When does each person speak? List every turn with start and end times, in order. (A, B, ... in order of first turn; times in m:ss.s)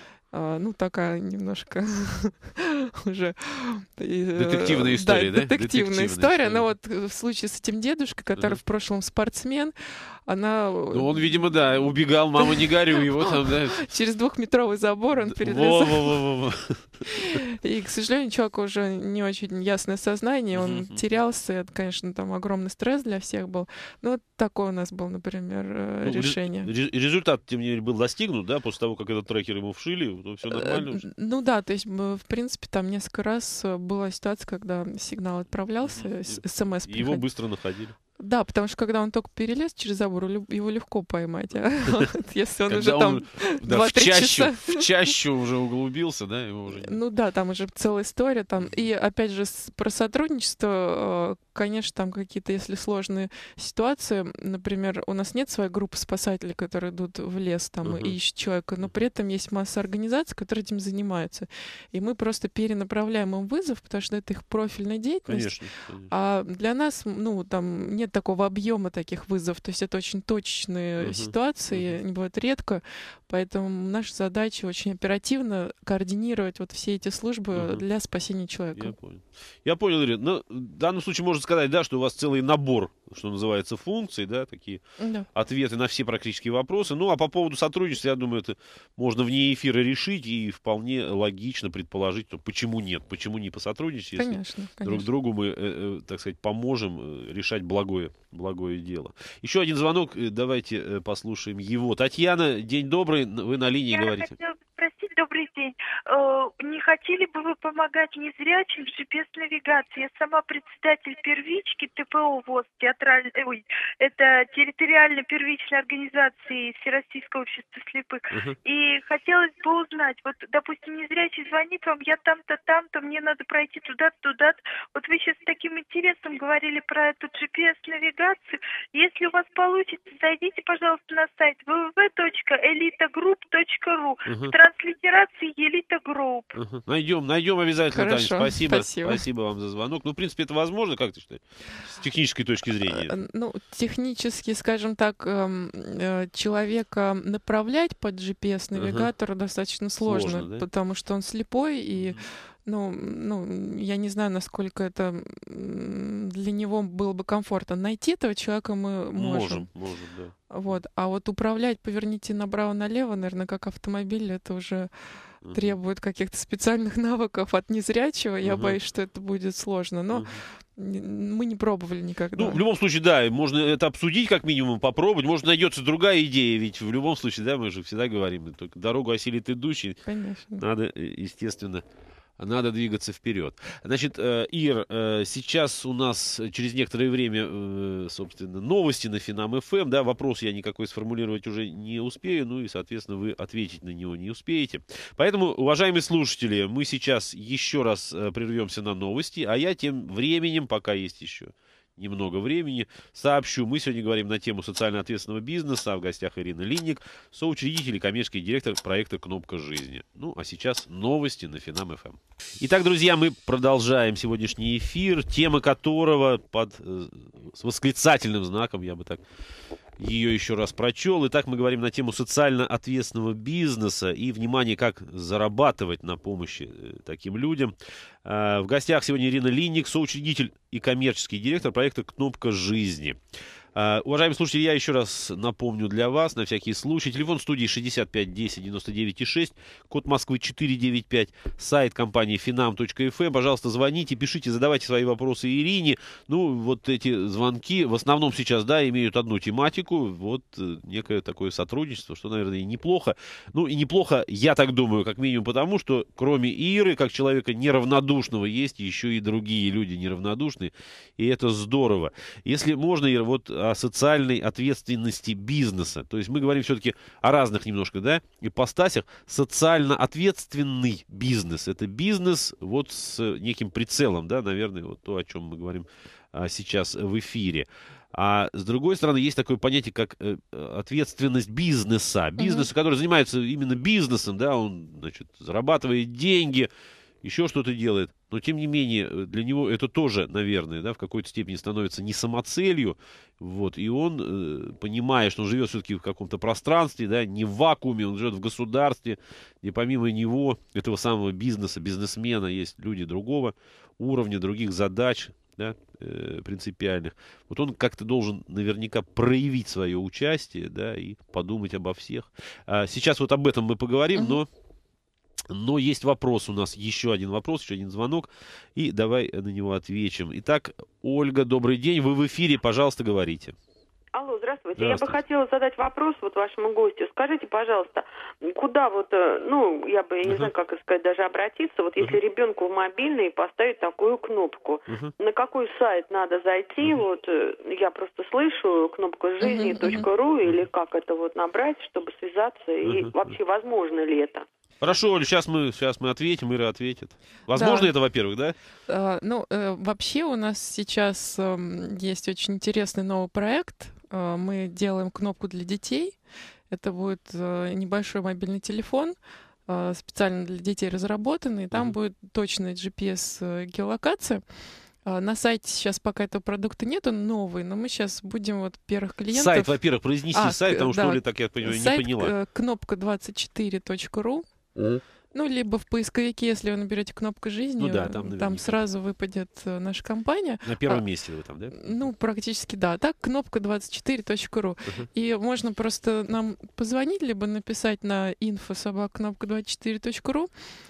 0:00.3-0:11.2 A
0:04.4-0:06.6 B
0:10.9-0:13.8 B
0:12.4-0:16.2 A
0:15.2-0:17.0 B
0:17.1-0:26.7 A
0:20.5-0:21.0 B
0:26.0-0:31.1 B
0:30.5-0:37.2 A
0:35.8-0:37.9 B
0:38.2-0:45.1 A
0:42.7-0:47.0 B
0:46.7-1:18.9 A
0:57.8-0:58.1 B
1:05.3-1:06.1 B
1:11.0-1:12.0 B
1:17.5-1:17.8 B
1:18.7-1:24.8 B
1:25.0-1:25.3 A
1:25.3-1:44.3 B
1:34.2-1:35.1 A
1:43.9-2:16.6 C
1:58.3-1:58.6 B
2:14.2-2:14.5 B
2:16.5-2:23.2 B
2:17.9-2:19.2 A
2:22.9-2:39.7 A
2:28.8-2:29.1 B
2:30.0-2:30.6 B
2:39.1-2:40.3 B
2:40.5-2:44.9 A
2:45.4-2:45.7 B
2:45.5-2:52.6 A
2:48.4-2:48.8 B
2:50.1-2:50.4 B
2:52.3-3:00.0 B
3:00.0-3:00.6 A
3:00.6-3:01.8 B
3:02.4-3:39.2 B
3:40.0-3:53.2 B
3:53.7-4:46.7 B
4:42.4-4:42.7 A
4:47.2-5:14.5 B
5:14.1-5:14.4 A
5:15.5-5:23.6 B
5:24.1-5:44.4 D
5:24.8-5:25.2 B
5:30.2-5:30.5 B
5:39.4-5:40.0 A
5:39.8-5:40.6 B
5:42.8-5:43.3 B
5:44.8-5:48.5 B
5:47.5-5:47.9 A
5:48.9-5:56.2 A
5:56.7-5:59.1 A
5:59.7-6:04.4 A
6:05.0-6:09.8 A
6:09.3-6:12.3 B
6:10.3-6:14.4 A
6:14.8-6:15.0 B
6:15.3-6:21.0 A
6:17.8-6:18.8 B
6:20.6-6:21.9 B
6:21.7-6:30.5 A